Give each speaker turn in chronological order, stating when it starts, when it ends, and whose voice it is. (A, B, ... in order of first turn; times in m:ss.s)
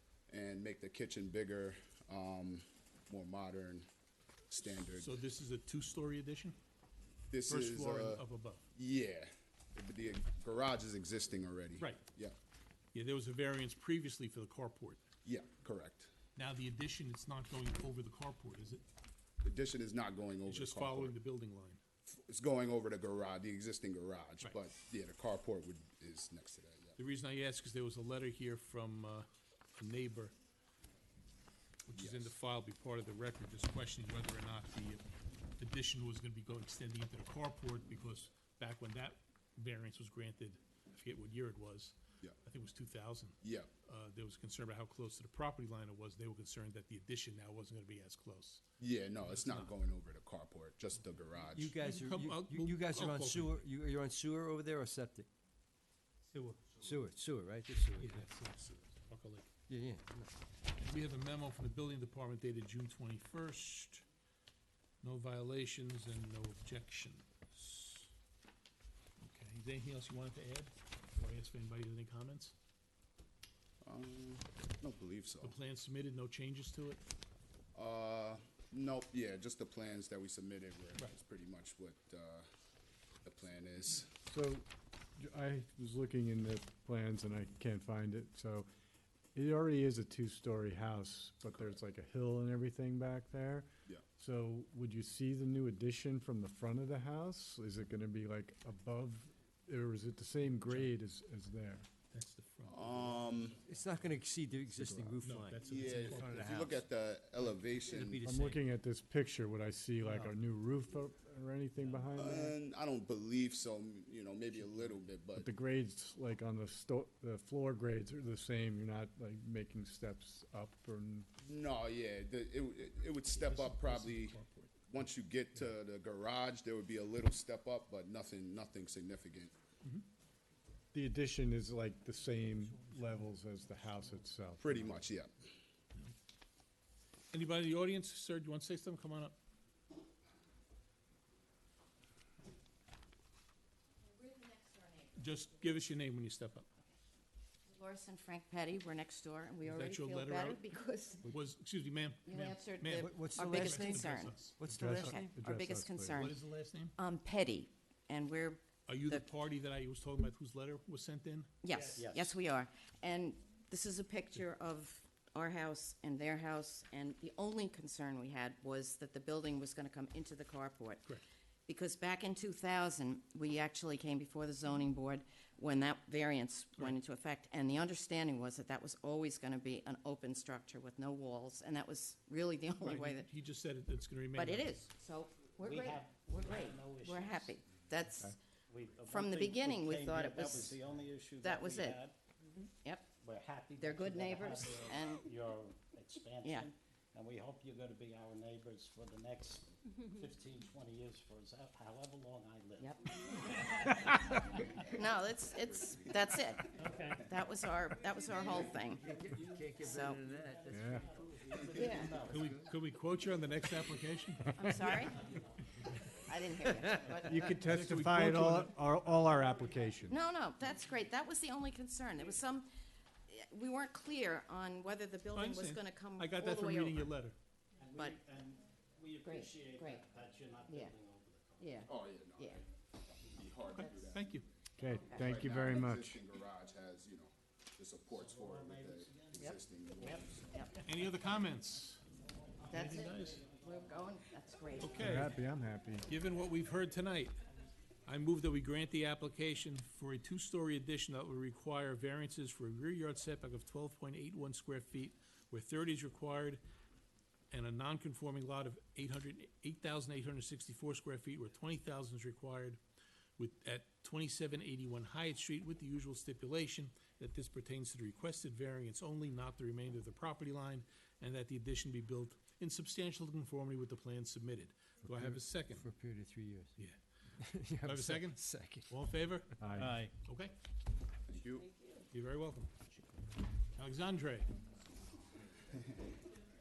0:00.3-0:03.9 A
0:04.5-0:05.1 A
0:04.8-0:06.6 B
0:07.3-0:08.2 A
0:07.5-0:08.6 B
0:08.7-0:12.3 A
0:12.9-0:15.0 B
0:15.2-0:16.1 A
0:16.4-0:18.8 B
0:19.4-0:21.1 A
0:20.4-0:21.8 B
0:22.1-0:27.0 A
0:27.0-0:30.3 B
0:31.9-0:35.0 B
0:31.9-0:32.3 A
0:35.6-0:48.6 B
0:43.4-0:43.7 A
0:48.8-0:51.7 A
0:49.2-0:49.7 B
0:51.5-0:55.3 C
0:51.8-0:53.6 B
0:56.3-0:56.8 B
0:56.7-0:58.2 C
0:58.0-0:59.5 B
0:59.7-1:00.3 C
1:00.8-1:04.0 B
1:05.0-1:08.1 B
1:09.2-1:12.5 B
1:13.8-1:15.5 A
1:15.4-1:17.0 B
1:17.7-1:22.5 A
1:23.2-1:24.1 A
1:24.2-1:24.6 D
1:25.2-1:28.7 D
1:29.3-1:41.9 D
1:31.5-1:31.8 A
1:40.4-1:40.9 B
1:42.1-1:44.2 B
1:42.7-1:43.6 A
1:43.6-1:46.8 C
1:44.6-1:45.2 D
1:45.2-1:46.6 B
1:45.6-1:48.2 A
1:47.8-1:48.6 C
1:48.2-1:52.6 D
1:50.0-1:50.3 B
1:52.1-1:55.5 A
1:54.5-1:55.0 B
1:55.3-2:01.3 D
2:01.4-2:09.5 A
2:03.3-2:04.8 B
2:10.9-2:15.1 D
2:14.6-2:15.3 A
2:17.3-2:19.4 B
2:24.0-2:25.8 E
2:25.2-2:26.7 B
2:27.6-2:31.3 E
2:29.6-2:30.6 B
2:31.2-2:34.9 B
2:32.2-2:36.4 E
2:32.9-2:35.4 C
2:34.7-2:36.3 D
2:36.2-2:37.0 B
2:37.0-2:39.2 E
2:38.9-2:41.5 B
2:41.6-2:51.1 E
2:41.7-2:42.4 F
2:51.7-3:03.3 E
3:02.8-3:04.8 B
3:04.4-3:08.3 E
3:05.6-3:07.6 F
3:08.7-3:12.2 F
3:09.0-3:10.8 E
3:11.4-3:12.0 E
3:12.6-3:13.1 E
3:13.2-3:23.6 F
3:13.8-3:15.2 E
3:16.4-3:16.7 E
3:22.8-3:23.6 E
3:24.9-3:29.1 E
3:26.7-3:27.2 F
3:28.3-3:32.6 F
3:29.0-3:31.4 C
3:29.8-3:30.2 E
3:30.7-3:31.1 D
3:31.8-3:32.2 E
3:32.2-3:32.7 C
3:32.3-3:35.0 B
3:34.6-3:35.2 E
3:36.2-3:37.4 E
3:36.8-3:37.2 F
3:37.1-3:40.2 D
3:37.5-3:38.8 B
3:40.1-3:42.7 E
3:43.3-3:47.1 E
3:45.3-3:47.4 B
3:47.8-3:51.9 F
3:49.2-3:50.0 E
3:50.7-3:50.9 E
3:51.6-3:52.6 E
3:51.8-3:52.6 A
3:53.3-3:54.4 A
3:53.8-3:54.2 E
3:54.1-3:54.4 B
3:54.8-3:56.2 D
3:55.0-3:55.4 E
3:55.1-4:00.7 A
3:58.1-3:59.5 F
3:59.4-4:00.8 E
4:00.8-4:02.0 B
4:02.3-4:04.0 F
4:02.7-4:05.3 E
4:02.7-4:03.4 B
4:04.8-4:05.4 B
4:05.0-4:06.1 D
4:06.1-4:07.4 B
4:08.1-4:16.6 B
4:17.5-4:22.8 B
4:23.4-4:35.8 B
4:35.0-4:36.7 C
4:37.4-4:38.9 C
4:37.8-4:39.5 B
4:39.6-4:40.0 D
4:39.8-4:40.1 C
4:40.2-4:40.5 B
4:41.3-4:41.7 A
4:41.7-4:42.0 E
4:42.1-4:42.7 B
4:43.8-4:44.5 B